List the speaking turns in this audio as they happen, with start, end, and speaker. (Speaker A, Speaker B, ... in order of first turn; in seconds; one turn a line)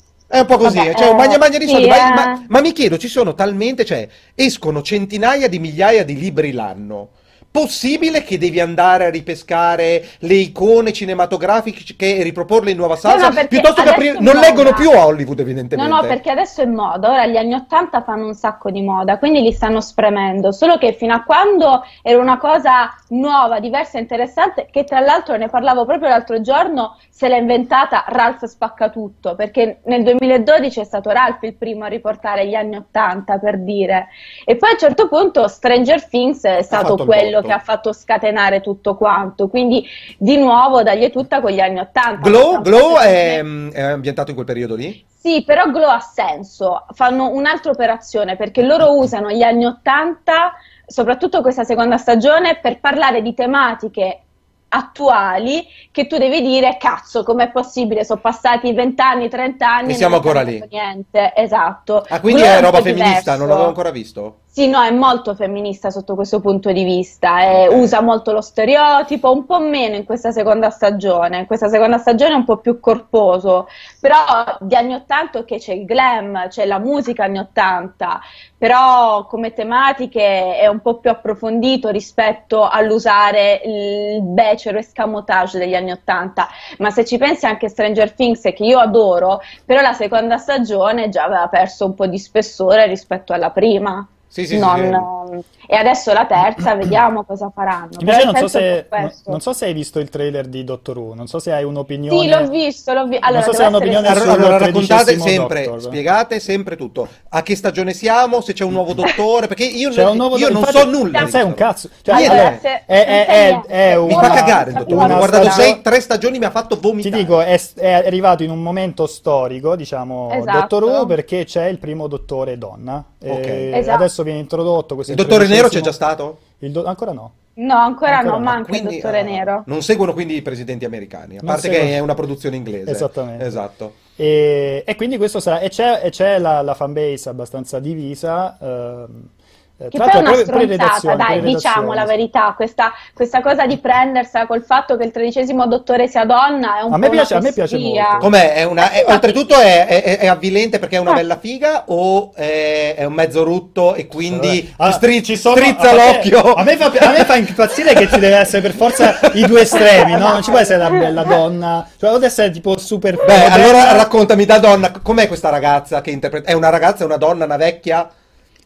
Speaker A: 0.3-16.2
Speaker B: 0.6-2.5
Speaker B: 13.0-14.9
Speaker B: 15.7-43.4
Speaker A: 36.7-37.6
Speaker A: 42.2-45.0
Speaker B: 45.2-63.7
Speaker A: 59.9-60.6
Speaker A: 62.1-64.3
Speaker B: 64.5-99.4
Speaker A: 67.5-68.0
Speaker A: 94.3-95.1
Speaker C: 98.0-102.5
Speaker B: 102.1-104.3
Speaker C: 103.3-106.0
Speaker A: 104.0-112.6
Speaker C: 109.9-115.8
Speaker B: 112.1-115.7
Speaker A: 114.0-117.3
Speaker C: 117.0-125.9
Speaker B: 120.3-121.1
Speaker A: 123.3-123.7
Speaker B: 123.7-124.0
Speaker A: 125.1-126.4
Speaker C: 126.6-127.3
Speaker B: 127.6-129.6
Speaker C: 128.1-128.6
Speaker A: 128.5-133.9
Speaker C: 131.4-132.0
Speaker C: 132.8-133.6
Speaker C: 134.2-142.1
Speaker B: 139.9-148.3
Speaker C: 146.9-148.3
Speaker A: 148.2-158.2
Speaker B: 148.8-149.4
Speaker C: 154.2-164.1
Speaker A: 158.8-159.8
Speaker B: 160.0-161.3
Speaker A: 163.2-168.1